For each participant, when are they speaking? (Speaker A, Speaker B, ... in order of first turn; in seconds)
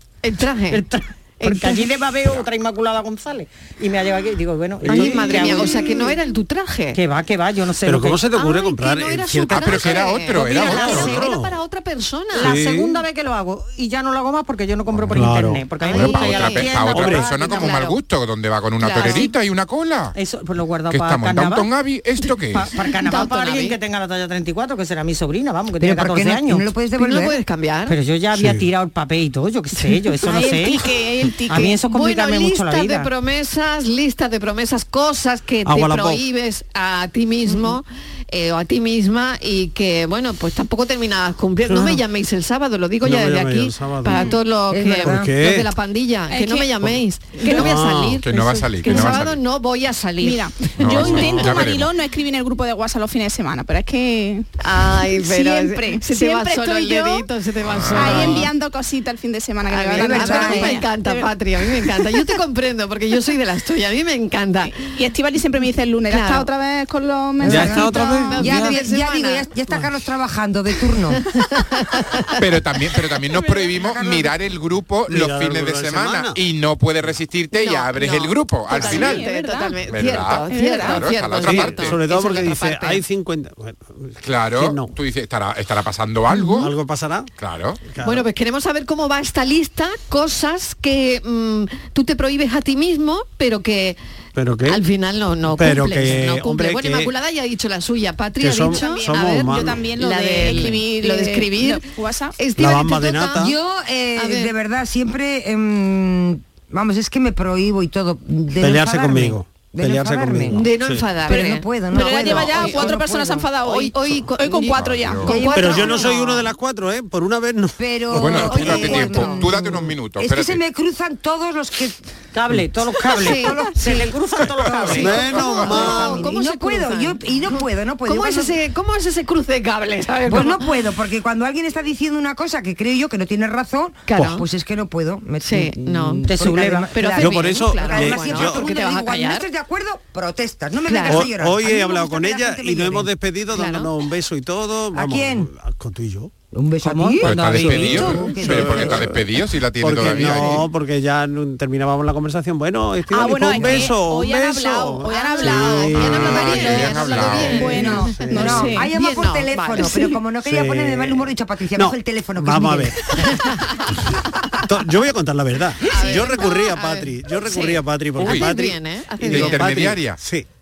Speaker A: 0.2-0.8, 1.4-1.9, 4.8-7.0, 8.3-12.8, 15.8-17.9, 23.0-23.8, 27.0-27.9, 31.5-48.3, 48.8-51.5, 54.6-58.5, 59.7-64.9, 66.1-66.5, 67.5-69.5, 71.4-72.3, 77.5-83.0, 88.0-94.0, 94.7-103.5, 104.2-104.5, 110.5-113.0, 113.6-116.5, 118.5-119.4, 123.2-123.6, 125.3-130.6, 134.1-134.4, 135.4-136.3, 136.9-139.5, 140.8-141.3, 143.5-143.9, 155.2-160.2, 163.2-163.9, 165.8-169.7
Speaker B: 0.7-6.2, 6.9-8.2, 10.6-11.1, 12.3-17.9, 18.8-19.3, 20.1-21.7, 22.5-26.7, 27.9-33.1, 122.3-125.5, 136.3-136.9, 146.8-148.2
Speaker C: 4.8-5.6, 7.8-11.6, 12.3-13.0, 14.9-15.8, 16.9-17.3, 28.3-28.6, 35.6-36.2, 41.6-42.0, 43.0-44.3, 45.0-45.7, 47.4-49.2, 50.9-51.6, 67.4-68.7, 75.1-76.4, 81.4-84.9, 86.3-87.3, 87.8-88.2, 94.3-94.8, 95.5-97.1, 98.4-99.9, 102.6-103.5, 108.6-111.1, 115.5-119.0, 124.9-126.2, 137.2-138.7, 141.1-146.3, 147.4-149.1, 149.8-156.6, 157.7-158.7, 160.4-163.0, 164.6-170.4
Speaker D: 9.5-11.1, 15.9-20.1, 20.9-22.7, 48.2-49.4, 50.8-51.9, 57.8-58.2, 72.4-79.2, 79.9-82.0, 84.2-86.7, 87.4-87.8, 114.7-115.4, 118.2-120.6, 147.2-150.7, 155.9-157.8, 168.2-168.5, 169.2-170.2
Speaker E: 25.8-27.4, 44.7-45.3, 59.9-60.8, 67.4-71.2, 73.8-74.3, 103.4-110.6, 111.2-113.5, 115.2-115.9, 117.8-122.0, 123.1-124.2, 125.0-128.6, 130.2-143.1, 144.9-145.5, 146.5-149.2, 157.6-162.9
Speaker F: 30.2-31.7, 44.1-44.4, 46.3-46.8, 50.2-54.5, 55.0-57.3, 57.9-62.3, 64.6-68.4, 78.7-79.8, 80.5-81.1, 98.7-102.4, 111.3-116.2, 153.1-158.9